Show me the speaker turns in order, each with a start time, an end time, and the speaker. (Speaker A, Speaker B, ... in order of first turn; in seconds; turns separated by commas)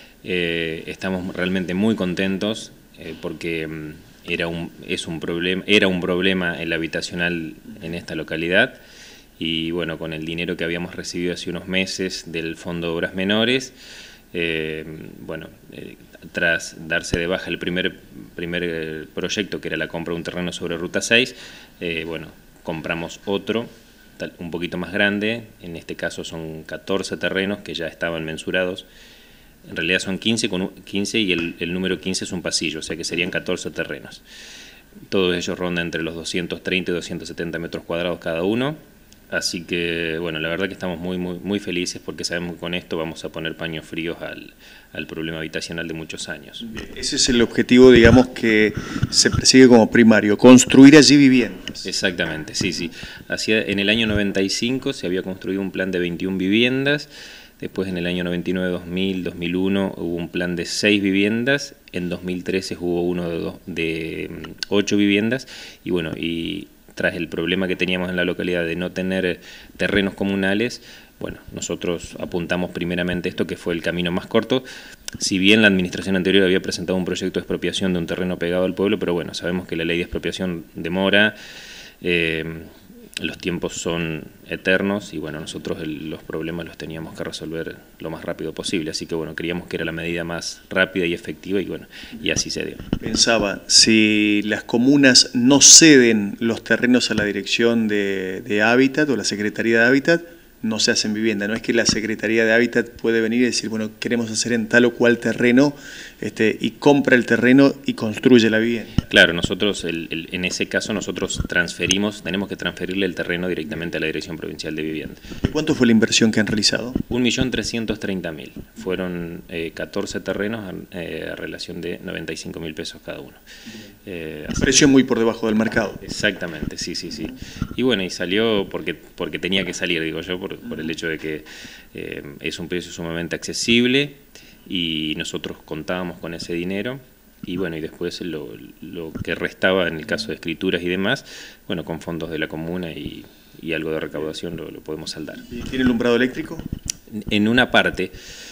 Speaker A: 0.2-8.8, Speaker A: 9.4-13.7, Speaker A: 14.3-28.9, Speaker A: 29.7-34.2, Speaker A: 35.1-38.8, Speaker A: 39.3-46.7, Speaker B: 46.6-51.8, Speaker A: 51.8-74.7, Speaker A: 75.2-81.3, Speaker A: 82.0-92.9, Speaker B: 93.0-109.0, Speaker A: 109.0-115.2, Speaker B: 115.4-117.0, Speaker A: 117.1-123.4, Speaker A: 124.0-124.8, Speaker B: 124.6-126.0, Speaker A: 126.0-145.5, Speaker B: 145.4-146.7, Speaker A: 147.1-148.1